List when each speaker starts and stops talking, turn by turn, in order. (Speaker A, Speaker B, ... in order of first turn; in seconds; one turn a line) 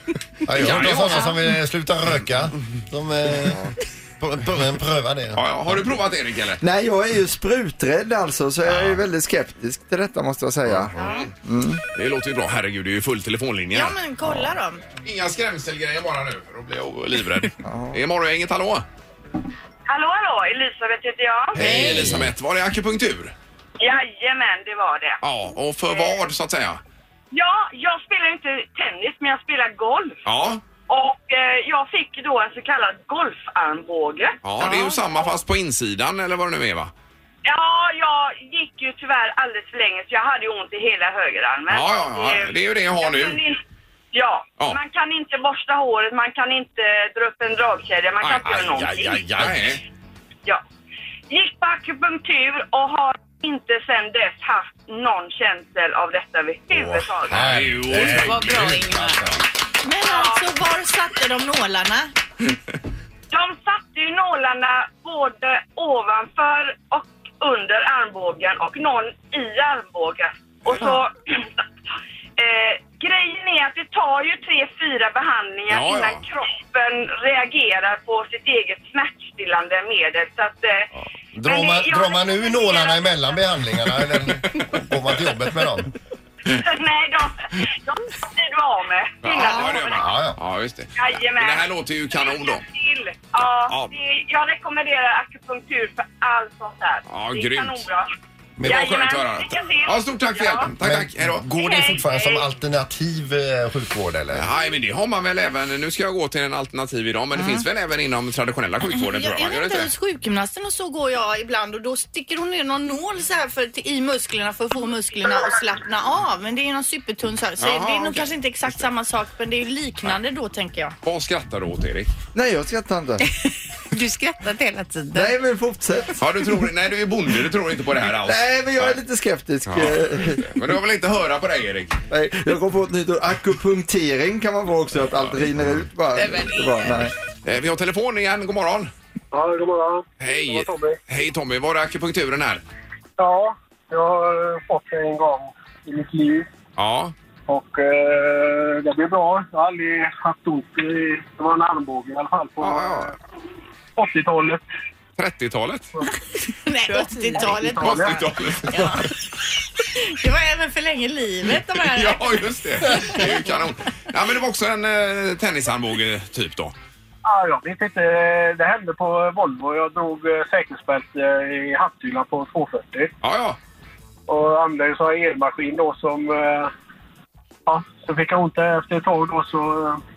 Speaker A: 0.5-5.9
Speaker B: 0.6-1.4
Speaker C: 0.8-1.4
Speaker B: 5.3-6.6
Speaker D: 6.6-11.8
Speaker B: 8.7-9.0
Speaker B: 10.8-11.3
Speaker C: 11.0-11.3
Speaker B: 11.9-14.0
Speaker C: 13.7-14.8
Speaker B: 15.0-18.9
Speaker D: 17.6-18.0
Speaker E: 19.9-21.6
Speaker B: 21.6-23.3
Speaker C: 21.6-22.2
Speaker A: 21.7-22.2
Speaker E: 23.8-25.2
Speaker B: 25.2-26.8
Speaker E: 27.3-30.2
Speaker B: 30.3-30.6
Speaker E: 30.9-34.4
Speaker B: 34.4-36.9
Speaker C: 34.6-35.0
Speaker E: 37.5-43.6
Speaker B: 41.7-43.4
Speaker E: 44.1-49.4
Speaker B: 48.2-49.8
Speaker A: 48.7-49.6
Speaker E: 51.3-57.5
Speaker A: 56.7-59.4
Speaker B: 57.3-59.2
Speaker C: 58.0-59.2
Speaker C: 59.8-62.1
Speaker E: 60.0-60.5
Speaker E: 63.3-71.5
Speaker E: 72.4-80.9
Speaker B: 75.7-76.2
Speaker A: 81.0-85.9
Speaker E: 81.4-83.2
Speaker E: 86.5-90.1
Speaker B: 89.2-92.6
Speaker A: 89.9-90.4
Speaker E: 91.0-98.1
Speaker B: 97.1-97.9
Speaker A: 98.6-98.8
Speaker E: 98.6-100.7
Speaker B: 98.6-101.5
Speaker A: 100.8-104.5
Speaker E: 101.5-102.5
Speaker B: 104.3-109.9
Speaker C: 107.3-107.7
Speaker C: 108.9-121.0
Speaker B: 117.6-118.9
Speaker B: 121.0-122.1
Speaker D: 122.3-123.2
Speaker C: 123.8-125.3
Speaker D: 125.1-126.5
Speaker B: 126.2-129.0
Speaker D: 128.2-130.5
Speaker B: 129.7-132.0
Speaker D: 132.1-137.1
Speaker B: 135.2-135.7
Speaker C: 136.4-136.7
Speaker B: 137.4-138.9
Speaker F: 139.3-141.0
Speaker B: 140.2-142.6
Speaker F: 143.2-146.5
Speaker B: 146.8-147.1
Speaker F: 147.5-153.2
Speaker B: 152.6-153.2
Speaker F: 154.0-154.6
Speaker B: 155.2-155.9
Speaker C: 156.5-159.2
Speaker F: 157.3-158.3
Speaker B: 157.5-159.1
Speaker C: 159.9-163.6
Speaker B: 161.8-166.8
Speaker F: 167.2-173.1
Speaker B: 173.2-173.6
Speaker F: 174.3-176.7
Speaker F: 177.7-180.0